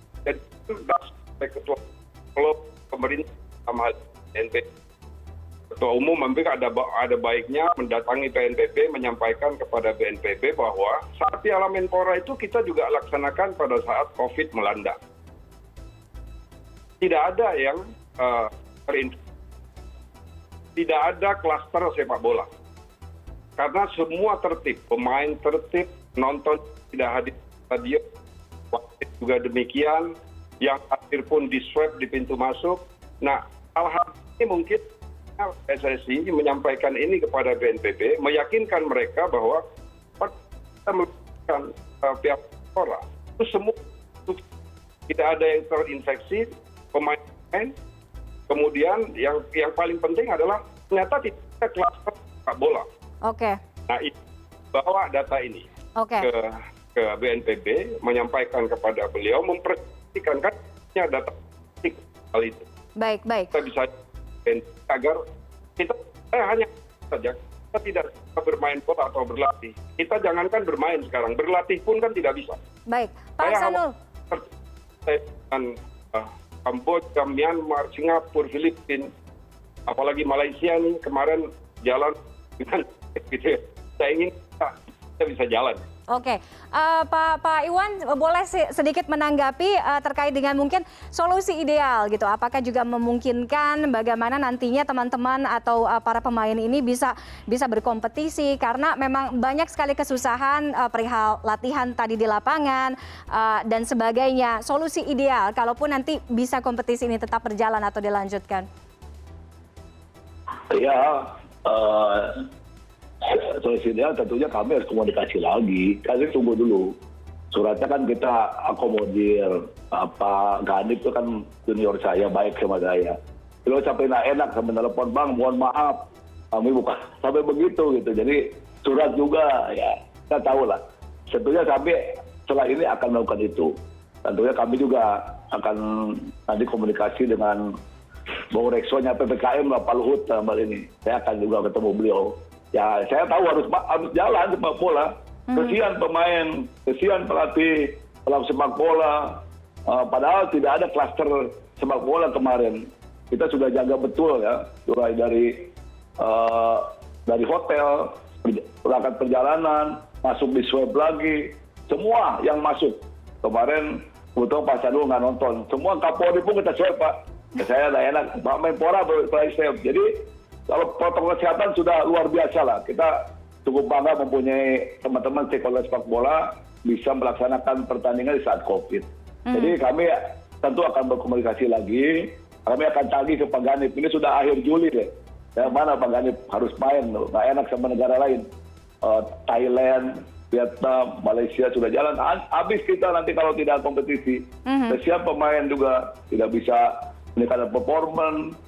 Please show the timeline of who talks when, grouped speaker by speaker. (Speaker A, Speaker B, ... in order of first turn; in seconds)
Speaker A: 0.2-1.8, 2.4-4.7, 5.7-15.0, 17.0-19.2, 20.8-22.5, 23.6-28.0, 28.7-34.9, 35.4-39.6, 40.9-44.4, 45.1-47.8, 48.5-52.9, 53.9-54.1, 54.7-55.7, 56.2-62.7, 63.5-63.9, 64.5-65.2, 65.8-72.6, 73.4-74.5, 75.1-79.1, 79.9-85.8
Speaker B: 53.2-53.6, 56.0-56.3, 63.0-63.5, 72.9-73.9, 86.1-108.7, 145.5-145.8, 179.5-179.8, 194.7-195.0
Speaker C: 110.7-112.5, 113.2-116.9, 117.5-133.7, 134.2-137.7, 138.5-173.1, 173.7-188.5, 189.0-198.5